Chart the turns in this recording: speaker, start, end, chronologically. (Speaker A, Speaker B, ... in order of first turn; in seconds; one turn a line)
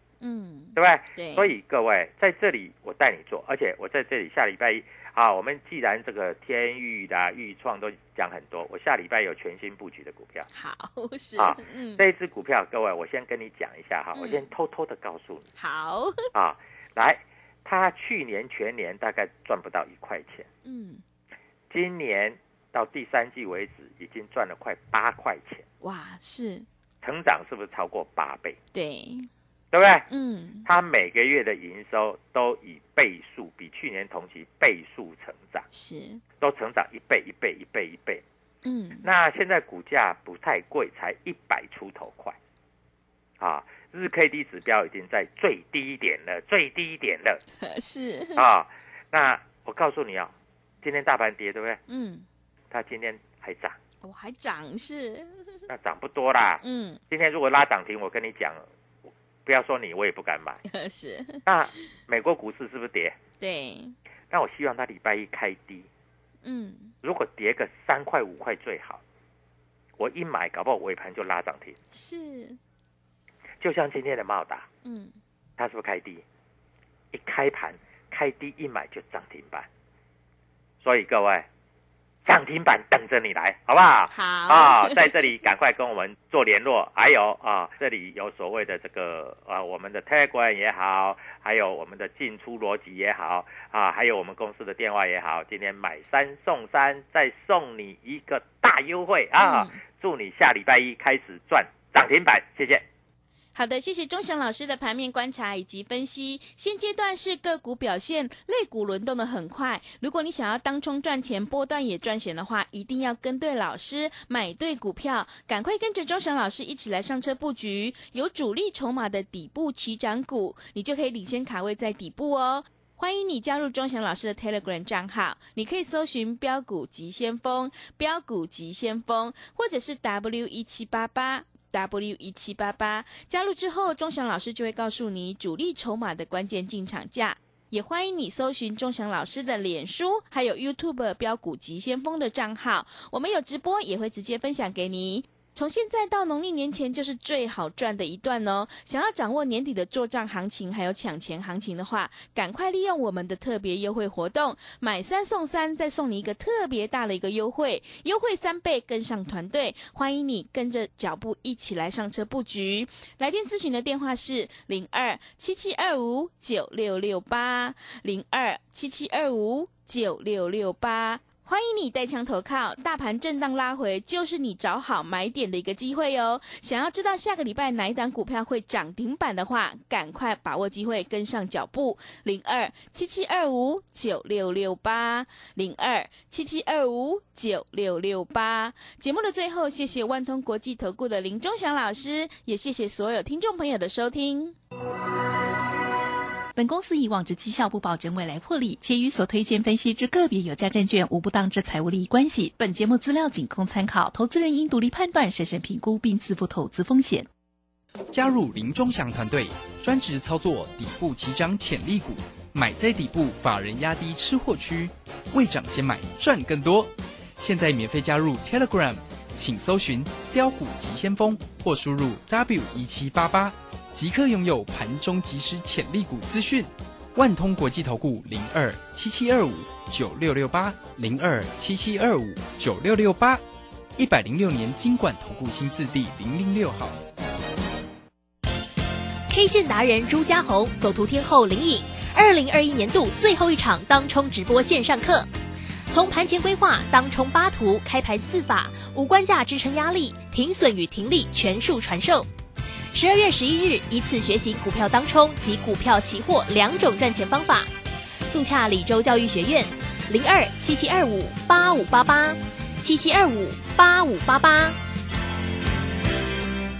Speaker A: 0.2-1.5
Speaker B: 0.8-10.5
Speaker A: 10.5-12.0
Speaker B: 11.4-15.5
Speaker A: 14.1-14.4
Speaker A: 15.6-16.3
Speaker B: 16.3-20.5
Speaker A: 20.6-21.0
Speaker B: 21.7-25.6
Speaker A: 25.8-26.6
Speaker B: 27.0-28.6
Speaker A: 28.7-29.3
Speaker B: 29.7-30.1
Speaker A: 30.1-30.7
Speaker B: 30.6-35.7
Speaker A: 35.7-36.2
Speaker B: 36.4-38.2
Speaker A: 38.6-39.1
Speaker B: 39.0-42.4
Speaker B: 43.4-47.4
Speaker A: 47.6-48.4
Speaker B: 48.4-51.8
Speaker A: 51.9-52.3
Speaker B: 52.7-53.8
Speaker A: 54.0-55.6
Speaker B: 55.7-58.6
Speaker A: 56.6-57.0
Speaker B: 59.5-60.6
Speaker A: 60.7-61.4
Speaker B: 61.5-63.1
Speaker A: 63.4-63.9
Speaker B: 64.3-65.9
Speaker A: 66.4-66.9
Speaker B: 67.0-69.0
Speaker B: 70.0-71.8
Speaker A: 71.9-72.6
Speaker B: 73.6-74.7
Speaker A: 74.8-75.2
Speaker B: 75.6-76.2
Speaker B: 77.1-79.7
Speaker B: 80.8-81.5
Speaker B: 82.3-102.8
Speaker A: 84.1-85.1
Speaker A: 99.4-99.8
Speaker A: 103.5-194.6
Speaker C: 196.6-207.3
Speaker D: 208.1-233.4
Speaker D: 233.9-237.0
Speaker E: 239.3-245.3
Speaker E: 245.9-252.3
Speaker E: 252.9-257.7
Speaker E: 258.3-264.8